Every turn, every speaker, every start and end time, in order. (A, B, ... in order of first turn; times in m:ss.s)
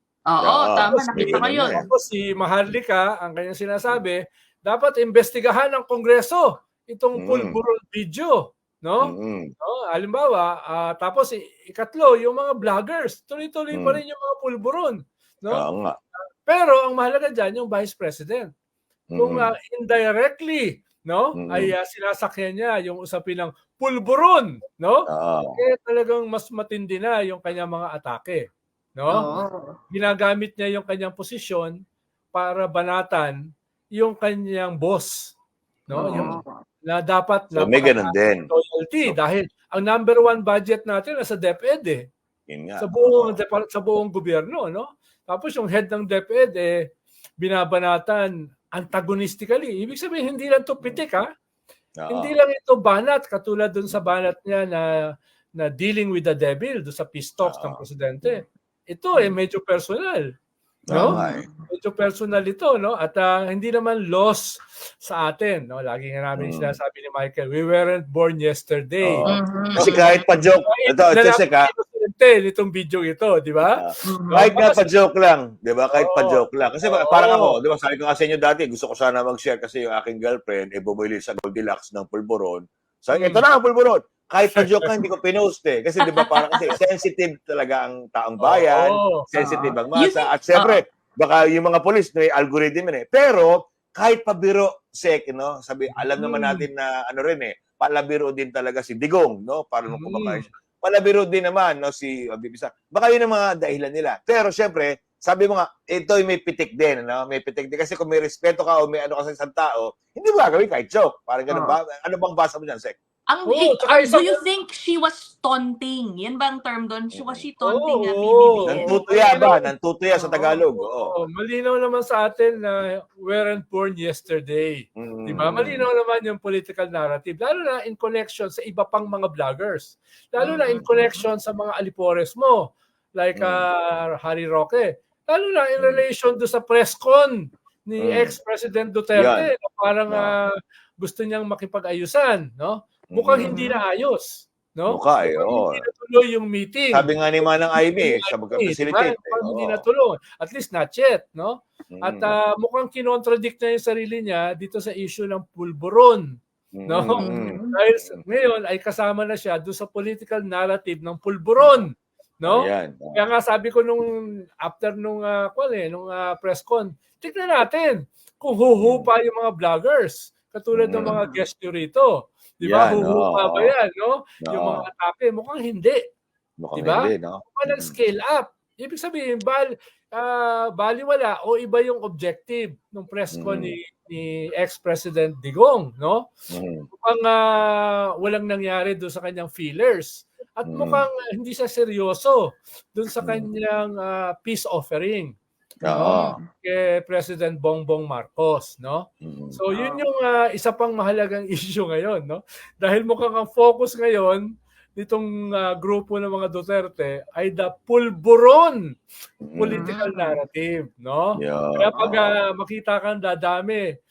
0:00.3-0:01.9 A
0:00.4-0:01.9 B
0:00.9-0:15.6 C
0:07.2-0:07.6 B
0:09.0-0:09.5 B
0:13.7-0:14.0 B
0:15.5-0:16.0 B
0:16.4-0:18.5 C
0:19.1-0:19.5 B
0:19.2-0:29.3 C
0:21.4-0:21.7 B
0:25.1-0:25.6 B
0:29.1-0:29.8 A
0:29.9-0:31.8 C
0:32.3-0:33.4 C
0:34.0-0:35.4 C
0:35.9-0:42.1 C
0:35.9-0:36.4 B
0:36.0-0:36.5 A
0:37.6-0:38.5 B
0:42.5-0:43.4 B
0:42.8-0:46.9 C
0:47.4-0:51.3 C
0:52.0-0:52.4 B
0:52.1-0:54.9 C
0:55.6-1:00.3 C
0:57.4-0:58.4 B
1:00.9-1:01.5 B
1:00.9-1:01.2 C
1:00.9-1:01.5 A
1:01.7-1:10.1 C
1:06.4-1:06.8 B
1:09.0-1:11.7 B
1:09.3-1:10.1 A
1:10.7-1:14.9 C
1:13.7-1:53.0 B
1:14.0-1:14.4 A
1:16.0-1:17.5 C
1:23.1-1:23.4 C
1:24.5-1:25.0 C
1:26.0-1:26.7 A
1:28.4-1:29.3 C
1:29.4-1:30.8 A
1:36.2-1:36.6 A
1:39.9-1:40.2 A
1:51.5-1:51.8 A
1:53.3-1:59.0 A
1:53.5-1:54.4 C
1:57.1-1:57.4 B
1:57.6-2:27.1 C
1:58.6-2:01.2 B
2:05.0-2:05.9 B
2:10.5-2:11.1 B
2:10.6-2:11.2 A
2:13.4-2:13.7 B
2:15.8-2:16.0 B
2:18.0-2:18.3 B
2:19.2-2:19.5 B
2:20.1-2:20.4 B
2:23.1-2:23.6 B
2:23.4-2:23.8 A
2:24.9-2:25.8 B
2:26.9-2:29.8 B
2:27.9-2:36.4 C
2:31.9-2:32.4 B
2:36.8-2:38.2 B
2:36.9-2:56.0 C
2:37.2-2:37.8 A
2:42.5-2:43.2 B
2:48.8-2:49.1 B
2:50.7-2:51.2 B
2:51.0-2:51.4 A
2:52.6-2:53.7 B
2:54.4-2:54.9 B
2:56.6-2:58.0 B
2:56.8-3:06.3 C
3:03.3-3:03.8 B
3:06.5-3:06.9 B
3:06.9-3:12.4 C
3:10.7-3:11.1 B
3:12.9-3:15.3 C
3:13.2-3:13.5 B
3:15.8-3:16.4 B
3:15.9-3:16.4 A
3:16.0-3:24.4 C
3:19.2-3:19.6 B
3:19.7-3:20.0 A
3:25.0-3:28.8 C
3:29.4-3:29.9 B
3:29.6-3:33.8 C
3:29.7-3:30.4 A
3:31.4-3:32.3 B